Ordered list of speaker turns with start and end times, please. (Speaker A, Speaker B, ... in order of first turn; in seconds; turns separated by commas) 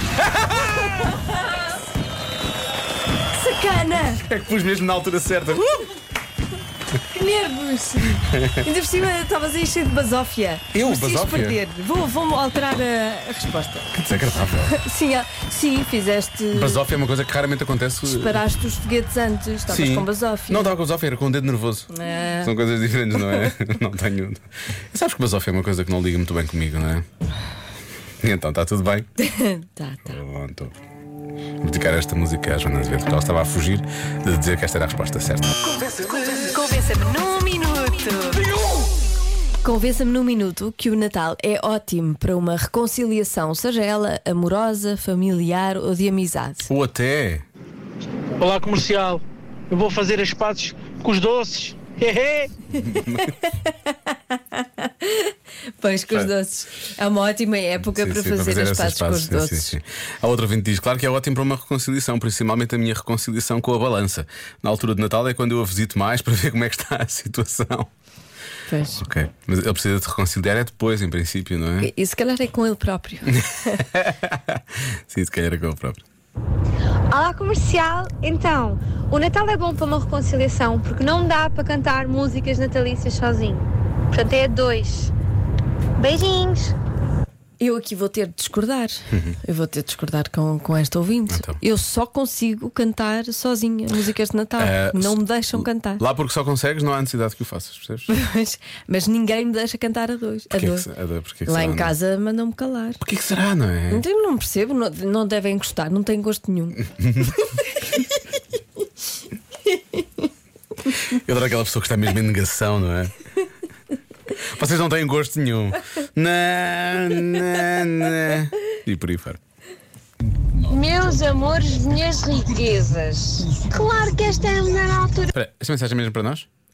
Speaker A: 0.2-1.2, Speaker B: 3.3-4.2, Speaker A: 4.2-5.9, Speaker B: 7.1-13.9, Speaker A: 8.2-8.7, Speaker A: 10.7-11.6, Speaker A: 13.9-14.8, Speaker B: 14.6-16.8, Speaker A: 16.5-18.4, Speaker B: 18.1-20.7, Speaker A: 19.7-21.9, Speaker B: 21.9-22.5, Speaker A: 22.4-27.1, Speaker B: 23.2-23.5, Speaker A: 28.2-29.1, Speaker B: 29.2-30.1, Speaker A: 30.1-30.7, Speaker A: 31.6-35.6, Speaker B: 35.7-38.4, Speaker B: 39.6-46.7, Speaker A: 46.7-47.4, Speaker C: 48.4-52.5, Speaker A: 52.8-53.3, Speaker B: 52.9-59.7, Speaker A: 57.9-67.9, Speaker B: 68.7-69.0, Speaker A: 69.0-71.9, Speaker B: 71.8-73.8, Speaker A: 73.6-76.0, Speaker D: 77.1-85.1, Speaker D: 86.0-86.7, Speaker B: 87.6-96.0, Speaker A: 89.1-89.4, Speaker A: 91.3-91.6, Speaker A: 94.6-98.1, Speaker B: 98.1-100.9, Speaker A: 100.5-101.9, Speaker B: 101.5-103.0, Speaker A: 103.0-104.0, Speaker B: 103.9-106.8, Speaker A: 107.0-107.4, Speaker B: 107.4-108.0, Speaker A: 111.1-113.1, Speaker A: 114.4-119.4, Speaker A: 120.4-121.5, Speaker E: 120.7-125.3, Speaker A: 125.3-126.5